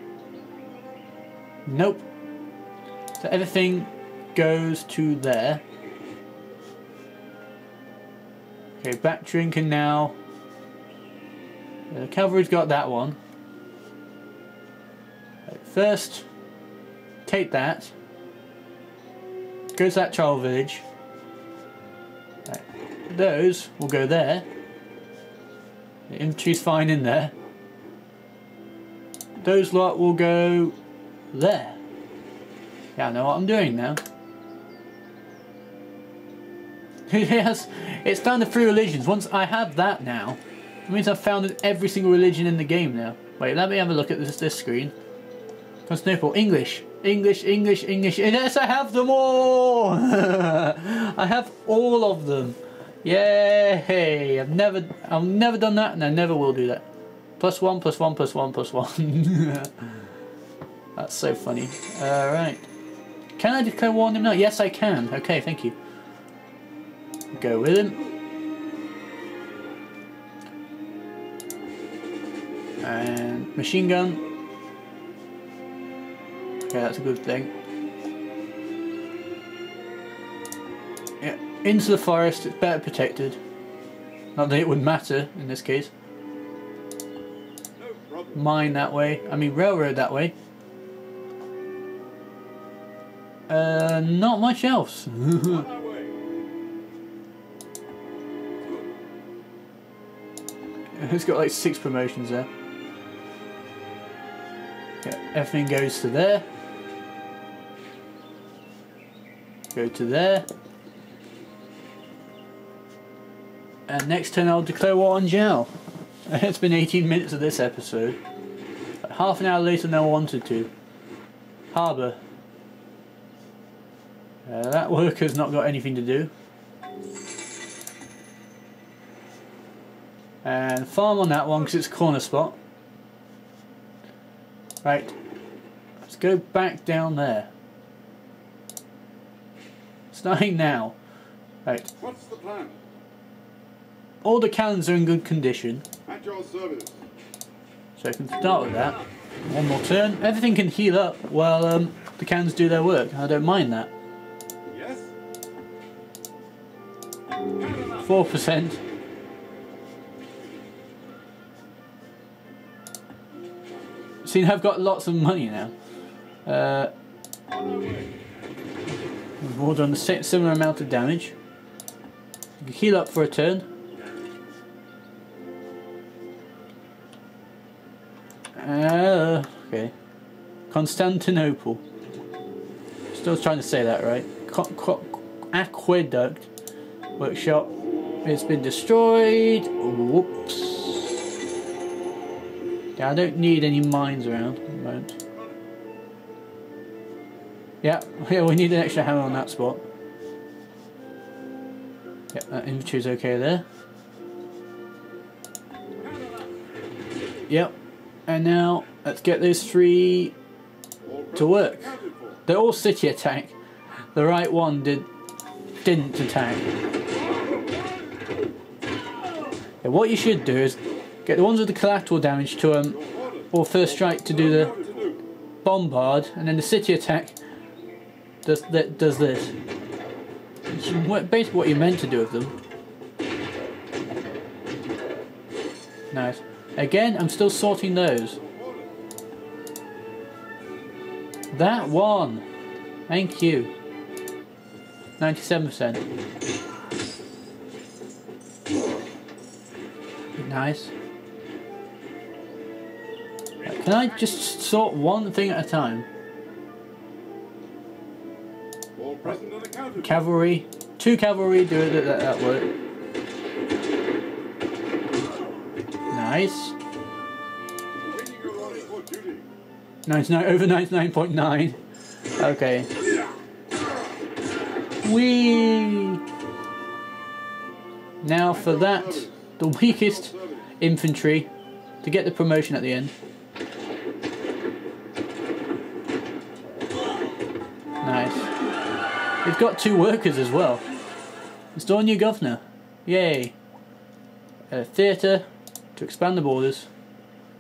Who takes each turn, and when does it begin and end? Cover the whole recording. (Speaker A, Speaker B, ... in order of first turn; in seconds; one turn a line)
Speaker A: 1.7-2.0
Speaker A: 3.2-5.6
Speaker A: 8.8-10.2
Speaker A: 11.9-13.2
Speaker A: 15.5-16.3
Speaker A: 17.3-17.9
Speaker A: 19.8-20.9
Speaker A: 22.5-24.5
Speaker A: 26.1-27.3
Speaker A: 29.4-30.8
Speaker A: 31.3-31.8
Speaker A: 33.0-34.0
Speaker A: 37.1-44.9
Speaker A: 45.9-56.9
Speaker A: 57.4-60.0
Speaker A: 61.0-62.7
Speaker A: 63.4-65.8
Speaker A: 67.3-68.0
Speaker A: 72.8-74.2
Speaker A: 76.7-77.5
Speaker A: 81.2-83.4
Speaker A: 84.4-85.9
Speaker B: 87.8-88.9
Speaker A: 88.3-90.3
Speaker A: 93.5-95.7
Speaker B: 95.4-96.2
Speaker A: 101.0-102.5
Speaker A: 105.0-106.5
Speaker A: 109.7-110.5
Speaker A: 113.9-115.7
Speaker A: 116.3-118.2
Speaker A: 119.0-120.7
Speaker A: 121.7-122.2
Speaker A: 124.5-126.3
Speaker A: 130.4-132.6
Speaker A: 134.8-135.1
Speaker A: 136.0-137.5
Speaker A: 140.1-141.0
Speaker A: 141.7-141.9
Speaker B: 142.0-142.8
Speaker A: 144.2-145.8
Speaker B: 146.1-147.1
Speaker A: 148.0-153.9
Speaker B: 154.7-155.2
Speaker B: 157.6-158.1
Speaker A: 158.0-158.8
Speaker A: 164.2-165.7
Speaker A: 166.5-166.9
Speaker B: 167.5-168.2
Speaker A: 169.4-171.3
Speaker A: 172.6-173.7
Speaker A: 178.6-179.9
Speaker A: 180.7-181.8
Speaker A: 183.1-186.5
Speaker A: 187.2-191.2
Speaker A: 193.0-195.2
Speaker A: 197.8-199.8
Speaker A: 202.3-203.7
Speaker B: 206.0-206.6
Speaker A: 207.5-207.7
Speaker A: 208.3-210.3
Speaker B: 211.0-212.4
Speaker A: 211.3-213.6
Speaker A: 214.1-215.1
Speaker A: 215.8-216.7
Speaker A: 219.8-223.0
Speaker B: 222.8-225.2
Speaker A: 223.5-224.8
Speaker A: 225.6-227.4
Speaker A: 228.4-229.6
Speaker A: 230.7-232.5
Speaker A: 236.1-238.4
Speaker B: 238.4-238.9
Speaker A: 241.5-242.5
Speaker A: 243.1-243.7
Speaker A: 245.2-246.1
Speaker A: 250.4-250.9
Speaker B: 253.6-254.4
Speaker A: 253.7-256.1
Speaker B: 258.9-260.2
Speaker A: 260.0-262.7
Speaker A: 266.1-266.8
Speaker B: 268.0-269.5
Speaker A: 270.1-271.8
Speaker A: 272.4-272.9
Speaker A: 275.0-276.2
Speaker A: 278.2-281.5
Speaker B: 278.5-279.4
Speaker B: 280.1-280.6
Speaker A: 282.0-283.1
Speaker A: 288.0-288.5
Speaker A: 289.4-290.9
Speaker A: 291.7-293.6
Speaker A: 294.7-296.9